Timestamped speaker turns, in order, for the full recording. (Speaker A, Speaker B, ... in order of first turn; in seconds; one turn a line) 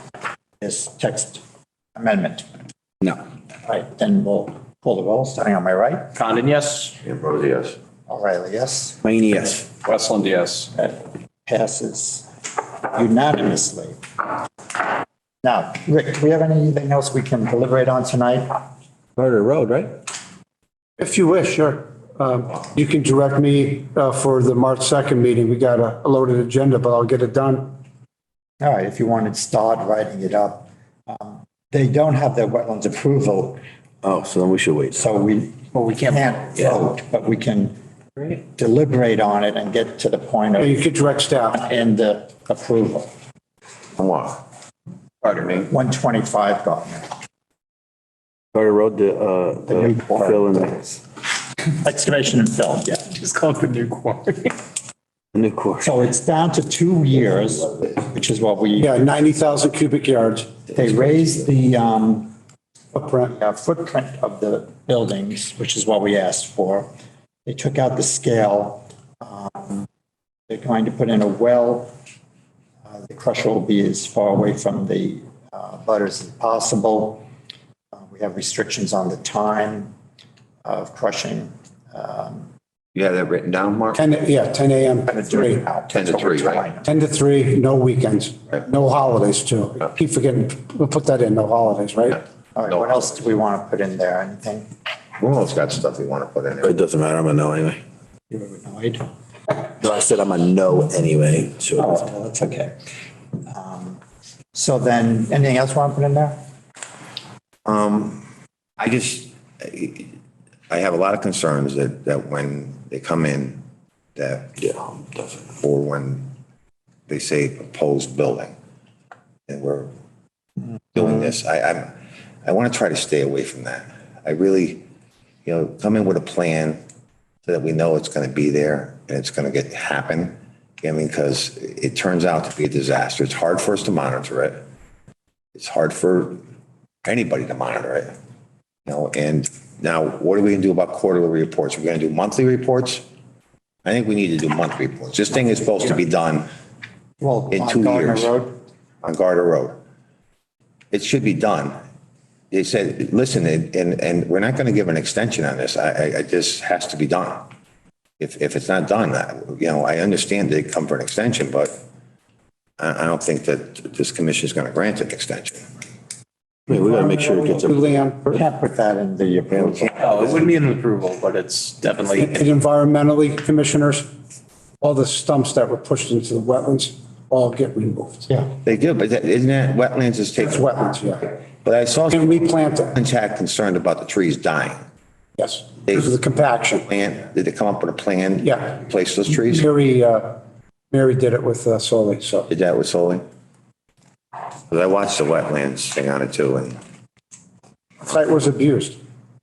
Speaker A: 0.6-1.4
Speaker A: 1.9-2.4
Speaker A: 3.6-6.1
Speaker B: 6.1-7.0
Speaker C: 7.0-7.8
Speaker A: 8.1-9.0
Speaker C: 9.0-9.7
Speaker B: 9.8-10.7
Speaker A: 10.8-12.3
Speaker A: 12.9-14.0
Speaker A: 15.4-18.5
Speaker C: 19.2-19.9
Speaker D: 21.0-27.7
Speaker A: 28.6-33.6
Speaker C: 34.0-35.0
Speaker A: 34.9-40.9
Speaker D: 40.6-41.6
Speaker A: 41.5-43.1
Speaker E: 44.0-44.4
Speaker E: 45.2-45.7
Speaker A: 45.5-47.1
Speaker C: 48.5-50.7
Speaker A: 49.7-51.0
Speaker A: 51.7-53.1
Speaker B: 53.1-54.6
Speaker C: 55.3-56.0
Speaker A: 55.8-59.0
Speaker D: 58.8-60.5
Speaker A: 60.7-62.3
Speaker D: 62.9-63.3
Speaker A: 63.3-66.9
Speaker A: 67.5-69.8
Speaker A: 70.5-71.9
Speaker A: 72.9-77.2
Speaker A: 77.9-79.9
Speaker A: 80.6-82.5
Speaker E: 82.9-84.0
Speaker D: 83.9-85.6
Speaker A: 85.0-86.9
Speaker E: 85.9-86.7
Speaker D: 86.8-92.2
Speaker A: 92.5-94.7
Speaker E: 92.7-93.0
Speaker E: 95.2-96.8
Speaker C: 96.6-97.8
Speaker A: 98.3-99.0
Speaker C: 99.8-102.0
Speaker A: 101.8-102.7
Speaker A: 103.5-104.0
Speaker A: 104.5-106.4
Speaker E: 107.6-108.2
Speaker E: 108.8-110.1
Speaker E: 110.7-113.6
Speaker E: 114.2-114.6
Speaker C: 114.6-115.5
Speaker E: 115.6-116.3
Speaker E: 117.1-118.5
Speaker E: 119.5-119.9
Speaker E: 120.9-121.9
Speaker E: 122.4-124.8
Speaker E: 125.4-126.8
Speaker E: 127.5-134.6
Speaker E: 135.5-136.4
Speaker E: 137.0-138.1
Speaker E: 138.8-143.0
Speaker E: 143.8-146.5
Speaker A: 147.2-148.5
Speaker E: 147.5-148.3
Speaker E: 149.0-149.8
Speaker E: 150.9-151.8
Speaker E: 152.5-157.5
Speaker E: 158.2-161.7
Speaker E: 162.8-165.6
Speaker C: 166.7-168.0
Speaker D: 166.8-168.3
Speaker A: 168.2-170.4
Speaker E: 169.6-169.9
Speaker B: 170.0-172.4
Speaker D: 172.2-174.1
Speaker D: 174.8-178.5
Speaker E: 178.6-184.8
Speaker D: 180.4-181.3
Speaker D: 182.1-182.9
Speaker D: 185.4-186.9
Speaker E: 186.8-189.7
Speaker D: 188.4-188.8
Speaker D: 189.3-190.4
Speaker D: 190.9-192.5
Speaker E: 192.5-193.2
Speaker E: 194.7-196.8
Speaker D: 198.0-199.0